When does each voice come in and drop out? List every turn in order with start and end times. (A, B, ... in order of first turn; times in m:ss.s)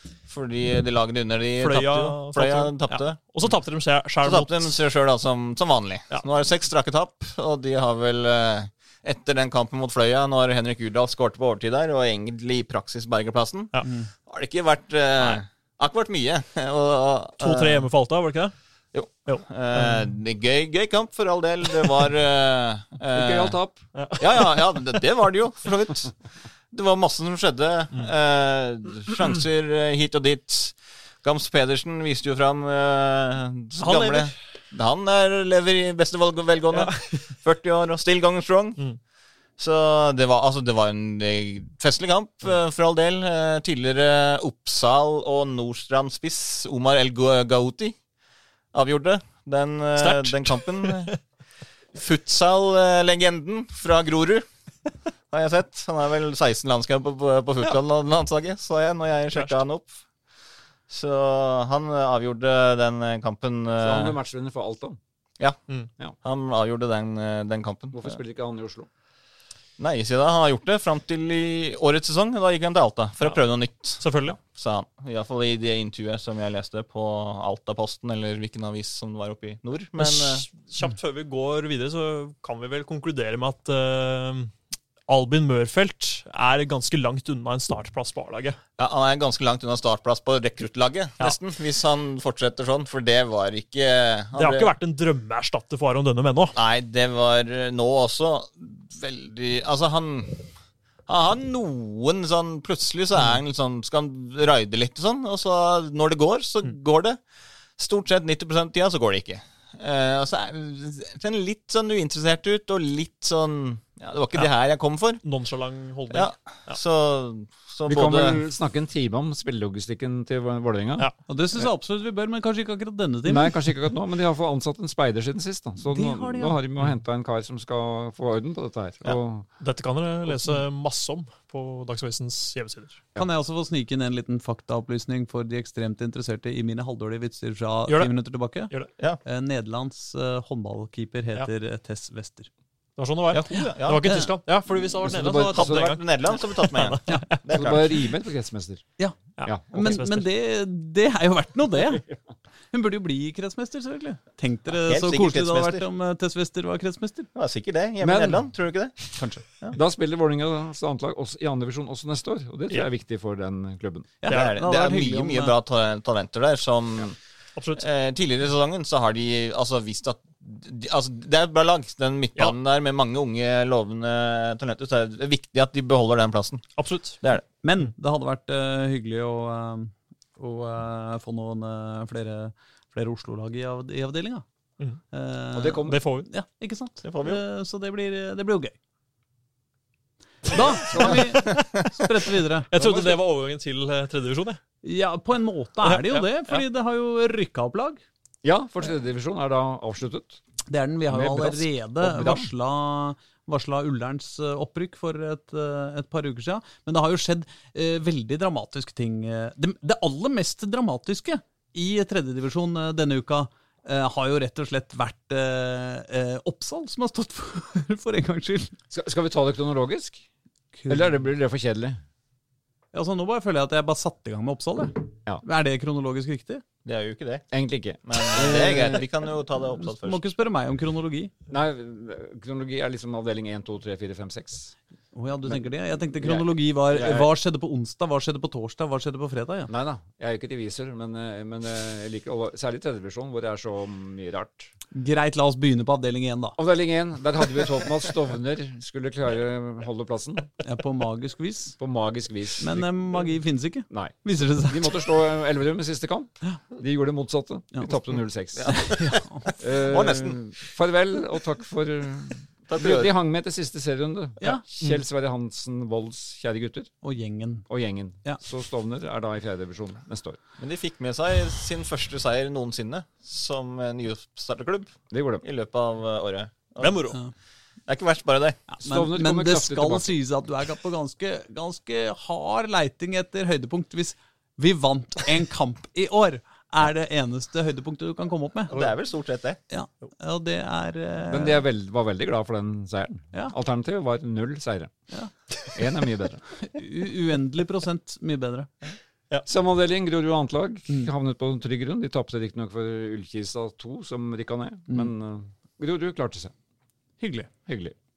0:00.2-0:03.2 A
0:01.6-0:04.7 B
0:04.2-0:17.9 A
0:13.8-0:14.1 C
0:17.4-0:18.5 B
0:18.9-0:23.6 A
0:19.1-0:20.1 B
0:23.1-0:23.8 D
0:23.9-0:24.8 B
0:24.2-0:26.1 A
0:26.7-0:38.8 A
0:33.8-0:34.3 B
0:36.7-0:37.2 B
0:39.6-0:48.0 A
0:48.7-0:51.2 A
0:50.0-0:51.1 B
0:51.9-0:54.4 A
0:55.3-0:59.9 A
0:59.3-0:59.6 B
1:00.9-1:04.2 A
1:03.8-1:05.0 D
1:06.2-1:08.2 A
1:07.9-1:08.9 D
1:09.8-1:20.4 A
1:13.2-1:14.4 B
1:20.0-1:24.5 B
1:25.1-1:28.6 B
1:28.8-1:34.7 A
1:34.4-1:36.6 B
1:36.5-1:40.5 A
1:41.1-1:47.2 A
1:47.8-1:55.2 A
1:55.2-1:56.8 B
1:56.1-1:58.4 A
1:57.8-2:01.1 D
2:01.3-2:03.7 C
2:03.2-2:09.4 D
2:05.8-2:06.6 C
2:09.6-2:13.0 B
2:13.2-2:18.7 C
2:19.2-2:22.5 C
2:23.0-2:27.9 B
2:23.3-2:24.3 A
2:23.5-2:24.3 C
2:25.0-2:26.0 D
2:25.1-2:28.0 A
2:27.4-2:28.8 D
2:29.4-2:30.3 B
2:29.4-2:30.0 D
2:29.7-2:32.1 C
2:32.7-2:37.3 C
2:34.8-2:35.8 A
2:37.3-2:39.8 A
2:38.0-2:44.1 D
2:44.2-2:45.6 C
2:44.3-2:47.2 A
2:47.6-2:47.8 B
2:47.8-2:57.4 A
2:56.8-2:57.2 B
2:57.6-3:04.4 C
3:05.1-3:08.8 C
3:05.5-3:06.0 D
3:05.8-3:06.3 B
3:07.0-3:07.4 A
3:10.5-3:12.7 C
3:10.7-3:11.5 D
3:11.4-3:11.8 A
3:12.7-3:14.6 B
3:12.8-3:13.2 D
3:14.8-3:18.0 C
3:15.8-3:16.6 B
3:18.4-3:20.4 D
3:20.7-3:38.7 C
3:21.1-3:22.5 D
3:38.9-3:40.2 D
3:40.8-3:41.2 C
3:40.9-3:42.0 D
3:42.9-3:46.6 C
3:46.8-3:47.5 A
3:47.5-3:49.0 D
3:48.0-3:50.3 A
3:48.3-3:49.0 C
3:49.8-3:51.3 C
3:51.5-3:54.7 D
3:55.1-3:59.7 C
3:56.2-3:57.3 D
3:56.9-3:57.3 A
3:59.7-4:04.7 D
4:04.9-4:06.6 C
4:06.6-4:10.5 D
4:10.6-4:11.8 C
4:11.8-4:12.9 D
4:12.6-4:15.1 C
4:13.9-4:19.0 D
4:18.5-4:20.4 A
4:18.6-4:19.5 C
4:19.6-4:26.9 D
4:22.7-4:23.1 A
4:24.4-4:24.6 C
4:27.0-4:27.7 C
4:27.7-4:30.4 D
4:30.6-4:37.1 A
4:35.1-4:35.4 D
4:36.8-4:37.2 B
4:37.9-4:38.6 A
4:38.7-4:48.9 C
4:38.8-4:40.2 D
4:48.7-4:49.6 A
4:49.7-4:51.6 C
4:51.3-4:54.9 D
4:55.6-4:56.4 D
4:56.6-4:58.7 C
4:59.4-5:06.5 D
5:07.2-5:07.5 C
5:07.6-5:07.9 D